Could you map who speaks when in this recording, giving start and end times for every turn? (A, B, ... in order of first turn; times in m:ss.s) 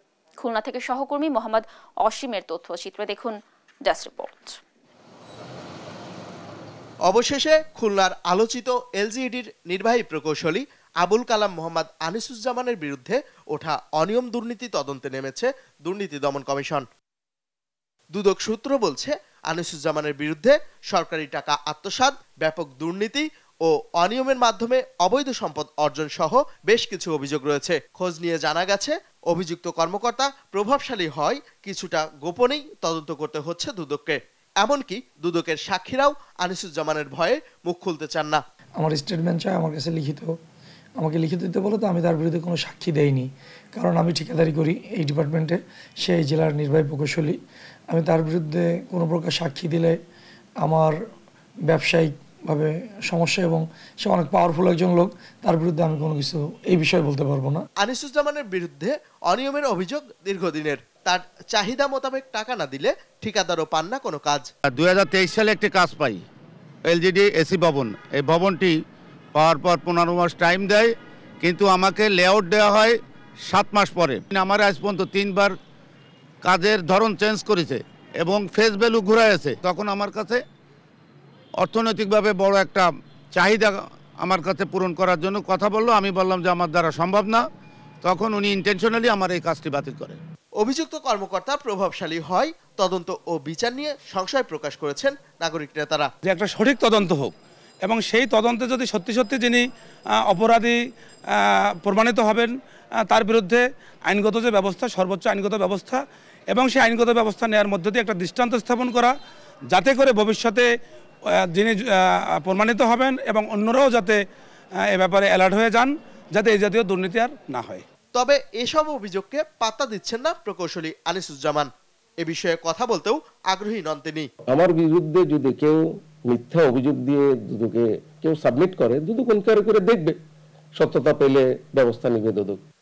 0:00.4-0:04.6 A
0:07.1-0:16.8 B
0:18.1-0:38.4 B
0:38.8-0:40.3 C
0:41.0-0:47.4 C
0:47.9-0:50.0 C
0:50.6-0:51.0 C
0:51.7-0:57.6 C
0:57.8-1:04.5 B
1:04.7-1:06.2 D
1:06.9-1:08.8 D
1:09.4-1:13.0 D
1:13.5-1:15.5 D
1:16.4-1:20.4 D
1:21.6-1:27.4 D
1:28.0-1:30.2 D
1:30.6-1:36.1 B
1:36.2-1:37.3 E
1:37.8-1:39.6 E
1:40.3-1:40.8 E
1:41.4-1:42.5 E
1:43.1-1:49.1 E
1:49.7-1:50.7 E
1:52.4-1:54.2 E
1:54.9-1:57.8 E
1:58.2-2:01.7 B
2:02.2-2:04.3 B
2:04.5-2:10.2 F
2:10.8-2:12.6 F